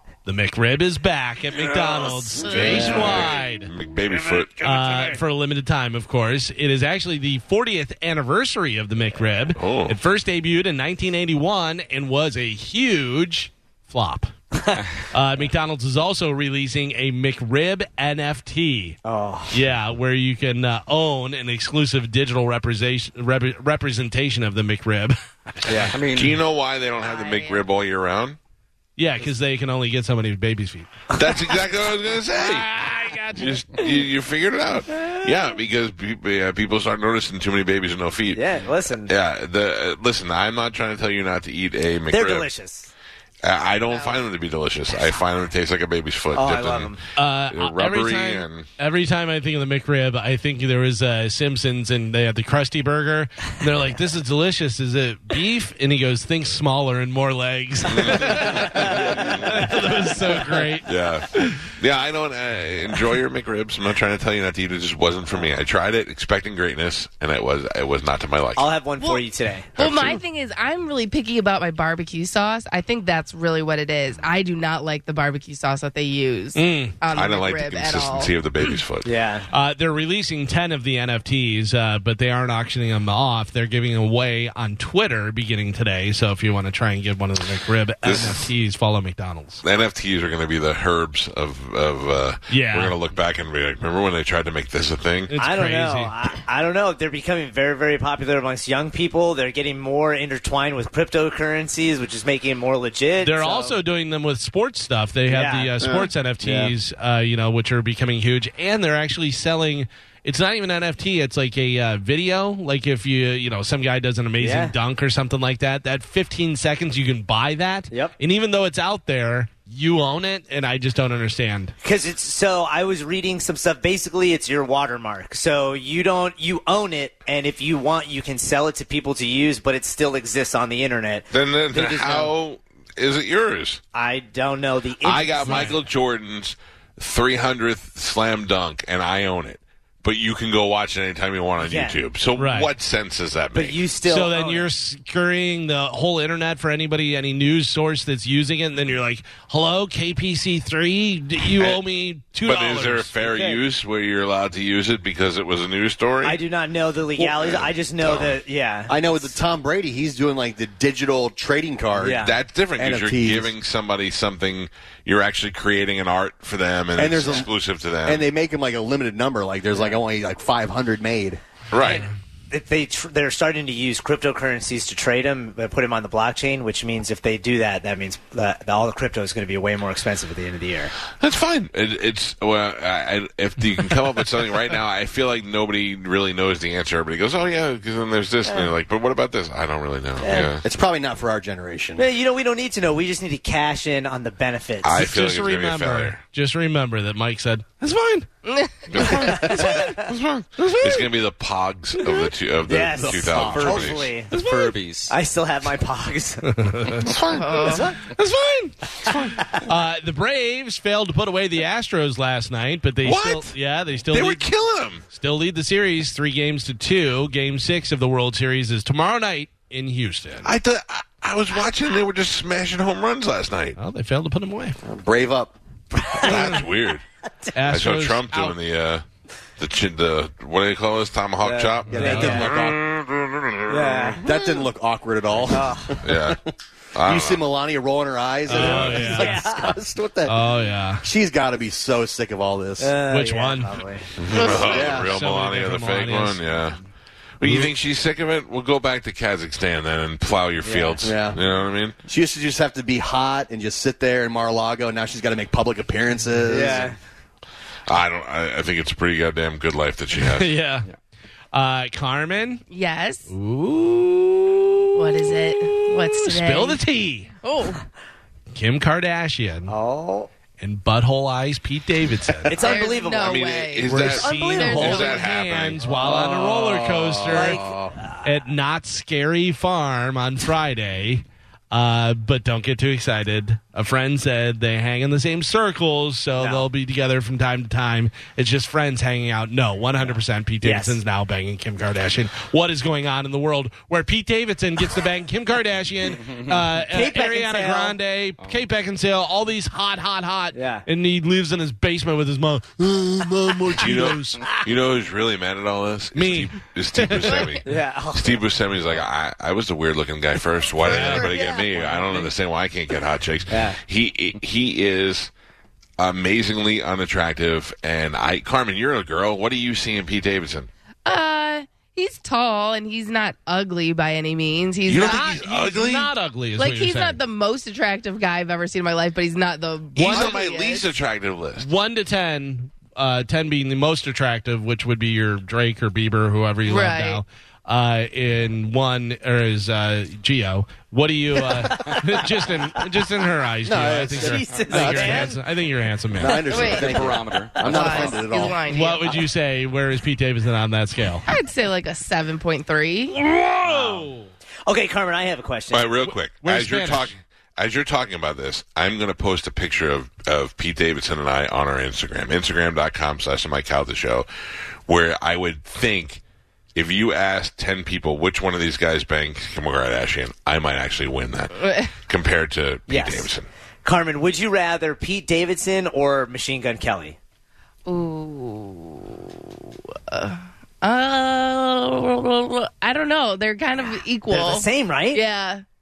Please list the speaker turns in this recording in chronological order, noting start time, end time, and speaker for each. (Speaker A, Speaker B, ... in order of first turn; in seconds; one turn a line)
Speaker A: 0.2-3.7
Speaker B: 1.9-4.6
Speaker C: 2.4-2.9
Speaker D: 2.5-3.3
Speaker D: 4.0-5.1
Speaker A: 4.6-14.3
Speaker B: 9.5-10.0
Speaker D: 14.5-14.8
Speaker A: 15.1-19.0
Speaker D: 19.0-19.6
Speaker A: 19.5-25.6
Speaker E: 25.9-26.4
Speaker B: 26.1-28.4
Speaker C: 27.0-27.7
Speaker A: 29.0-30.9
Speaker B: 31.1-32.7
Speaker A: 32.3-33.9
Speaker B: 33.3-38.4
Speaker D: 38.3-39.1
Speaker B: 39.1-42.5
Speaker D: 42.1-42.9
Speaker B: 43.4-46.9
Speaker D: 43.9-44.2
Speaker D: 46.3-47.0
Speaker A: 47.1-61.6
Speaker B: 47.5-48.7
Speaker B: 57.9-59.8
Speaker B: 60.8-68.7
Speaker D: 68.5-69.7
Speaker C: 69.8-78.7
Speaker B: 69.8-70.2
Speaker A: 76.5-77.0
Speaker B: 77.1-79.1
Speaker D: 79.0-79.5
Speaker A: 79.5-89.6
Speaker B: 88.0-88.5
Speaker B: 89.6-95.3
Speaker A: 92.5-92.9
Speaker A: 95.3-96.1
Speaker D: 95.4-103.8
Speaker A: 103.2-121.7
Speaker D: 105.3-105.7
Speaker B: 105.8-106.1
Speaker D: 114.4-114.7
Speaker D: 121.8-132.3
Speaker B: 131.3-133.8
Speaker D: 133.9-135.8
Speaker B: 135.0-143.8
Speaker A: 135.4-135.8
Speaker D: 141.6-142.0
Speaker A: 142.3-142.7
Speaker D: 143.5-144.7
Speaker A: 144.1-153.1
Speaker B: 152.4-156.4
Speaker D: 153.2-153.6
Speaker D: 156.2-159.3
Speaker B: 158.0-158.4
Speaker F: 158.9-163.5
Speaker D: 162.0-162.3
Speaker B: 162.0-168.2
Speaker F: 166.9-167.5
Speaker F: 168.0-171.4
Speaker B: 171.7-172.1
Speaker D: 171.8-180.9
Speaker B: 181.1-190.6
Speaker D: 188.4-188.7
Speaker D: 190.2-190.5
Speaker F: 190.6-192.1
Speaker D: 192.0-194.9
Speaker B: 194.8-196.2
Speaker A: 194.9-198.3
Speaker C: 198.4-198.8
Speaker B: 198.9-204.1
Speaker D: 199.2-199.9
Speaker A: 199.4-200.0
Speaker A: 200.6-201.1
Speaker D: 202.7-204.3
Speaker F: 202.9-203.9
Speaker E: 203.5-205.1
Speaker A: 204.3-204.7
Speaker D: 205.1-206.7
Speaker A: 206.5-207.1
Speaker B: 207.0-207.9
Speaker C: 207.3-207.9
Speaker A: 208.0-208.7
Speaker B: 209.0-209.5
Speaker A: 209.6-214.5
Speaker B: 213.0-213.5
Speaker B: 214.1-215.0
Speaker A: 215.1-220.5
Speaker B: 220.4-223.8
Speaker A: 223.8-224.8
Speaker F: 224.8-225.6
Speaker D: 226.0-226.6
Speaker B: 226.2-227.0
Speaker A: 227.5-228.6
Speaker B: 227.7-229.0
Speaker B: 229.6-234.2
Speaker D: 231.4-232.6
Speaker F: 231.9-232.8
Speaker A: 232.0-232.5
Speaker D: 233.7-234.2
Speaker F: 234.2-236.4
Speaker D: 235.5-236.0
Speaker B: 236.0-236.4
Speaker B: 236.9-237.4
Speaker F: 237.0-240.5
Speaker A: 238.5-239.3
Speaker D: 238.6-239.7
Speaker B: 238.6-239.0
Speaker A: 240.2-241.0
Speaker F: 241.0-242.9
Speaker D: 242.8-244.1
Speaker A: 243.1-243.7
Speaker B: 244.2-246.8
Speaker F: 244.3-245.1
Speaker A: 244.6-246.6
Speaker B: 247.4-252.0
Speaker A: 247.4-247.7
Speaker D: 250.6-251.2
Speaker F: 251.0-251.4
Speaker F: 252.1-256.9
Speaker D: 256.5-257.0
Speaker B: 257.9-260.5
Speaker A: 260.2-260.9
Speaker A: 261.5-262.6
Speaker C: 262.7-263.3
Speaker A: 263.3-265.2
Speaker C: 264.9-266.8
Speaker A: 266.1-267.3
Speaker C: 267.4-267.8
Speaker A: 268.5-269.7
Speaker D: 269.7-270.3
Speaker A: 270.6-272.6
Speaker D: 272.5-273.4
Speaker C: 272.6-275.3
Speaker B: 273.1-275.8
Speaker A: 273.9-277.6
Speaker D: 274.2-274.9
Speaker D: 275.9-278.3
Speaker F: 276.1-278.0
Speaker A: 278.2-304.6
Speaker D: 286.4-286.7
Speaker D: 290.0-291.0
Speaker D: 296.9-298.0
Speaker D: 300.5-300.9
Speaker B: 303.7-315.3
Speaker A: 306.1-307.5
Speaker D: 307.6-308.4
Speaker A: 310.8-311.3
Speaker D: 311.0-312.3
Speaker D: 313.5-313.8
Speaker B: 316.0-320.7
Speaker C: 321.0-325.2
Speaker B: 324.9-326.1
Speaker A: 325.0-327.2
Speaker C: 326.6-330.9
Speaker B: 329.9-331.7
Speaker A: 331.6-346.5
Speaker C: 336.7-337.2
Speaker F: 343.6-345.4
Speaker D: 344.1-345.4
Speaker F: 346.1-348.6
Speaker E: 346.4-348.3
Speaker C: 346.5-347.0
Speaker D: 346.7-348.0
Speaker C: 347.7-349.2
Speaker A: 348.6-351.3
Speaker C: 351.3-353.2
Speaker A: 353.2-354.3
Speaker D: 353.6-354.1
Speaker D: 354.6-355.9
Speaker B: 355.7-364.2
Speaker A: 356.0-357.1
Speaker B: 364.9-366.2
Speaker B: 366.7-373.5
Speaker C: 371.6-371.9
Speaker D: 372.9-373.3
Speaker D: 373.8-377.2
Speaker C: 377.9-385.6
Speaker D: 383.8-385.2